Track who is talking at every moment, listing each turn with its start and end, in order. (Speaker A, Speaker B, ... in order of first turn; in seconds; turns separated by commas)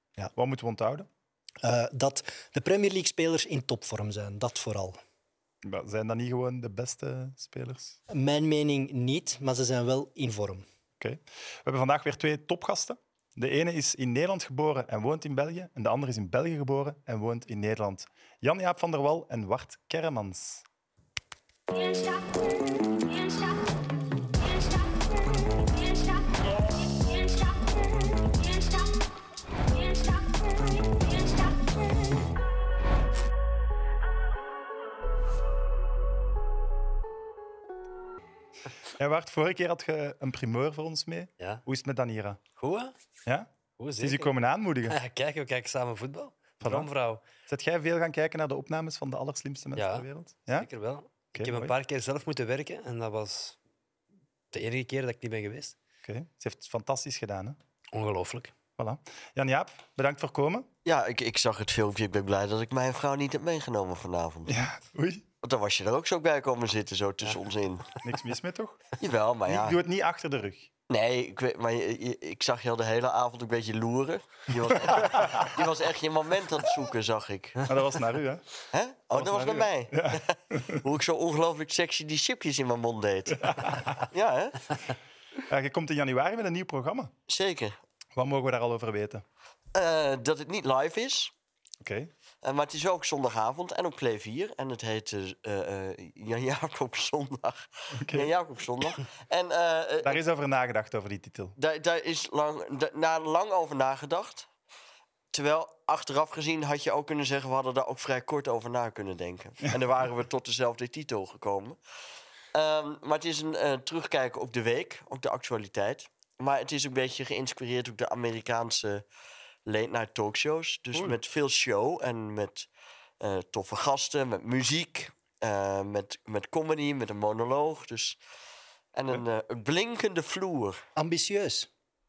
Speaker A: 0.3-1.1, Speaker B: 1.6-5.0, Speaker A: 5.6-8.0, Speaker B: 8.1-10.6, Speaker A: 11.0-20.6, Speaker C: 21.7-23.8, Speaker C: 24.4-29.0, Speaker C: 29.7-32.3, Speaker A: 39.0-42.4, Speaker D: 42.6-42.9, Speaker A: 43.2-45.0, Speaker D: 43.8-44.3, Speaker D: 44.9-47.2, Speaker A: 46.6-46.9, Speaker A: 47.5-50.7, Speaker D: 49.7-53.6, Speaker A: 51.3-51.7, Speaker D: 54.5-55.8, Speaker A: 56.0-57.6, Speaker D: 57.9-58.5, Speaker A: 58.8-60.6, Speaker E: 60.8-64.5, Speaker A: 64.5-65.2, Speaker E: 65.4-67.9, Speaker A: 68.0-68.8, Speaker E: 69.0-69.8, Speaker A: 69.5-70.7, Speaker E: 70.9-77.6, Speaker A: 75.0-75.5, Speaker A: 77.7-78.4, Speaker E: 78.7-84.7, Speaker A: 79.2-80.8, Speaker A: 83.4-83.9, Speaker A: 85.5-87.1, Speaker E: 87.3-87.8, Speaker A: 88.2-89.2, Speaker E: 89.7-91.3, Speaker A: 91.8-92.1, Speaker E: 92.4-100.2, Speaker A: 98.0-98.3, Speaker A: 100.0-101.5, Speaker E: 101.6-104.5, Speaker E: 105.3-111.8, Speaker E: 112.5-119.0, Speaker E: 119.7-122.7, Speaker E: 123.2-128.2, Speaker E: 128.9-130.8, Speaker B: 130.9-131.7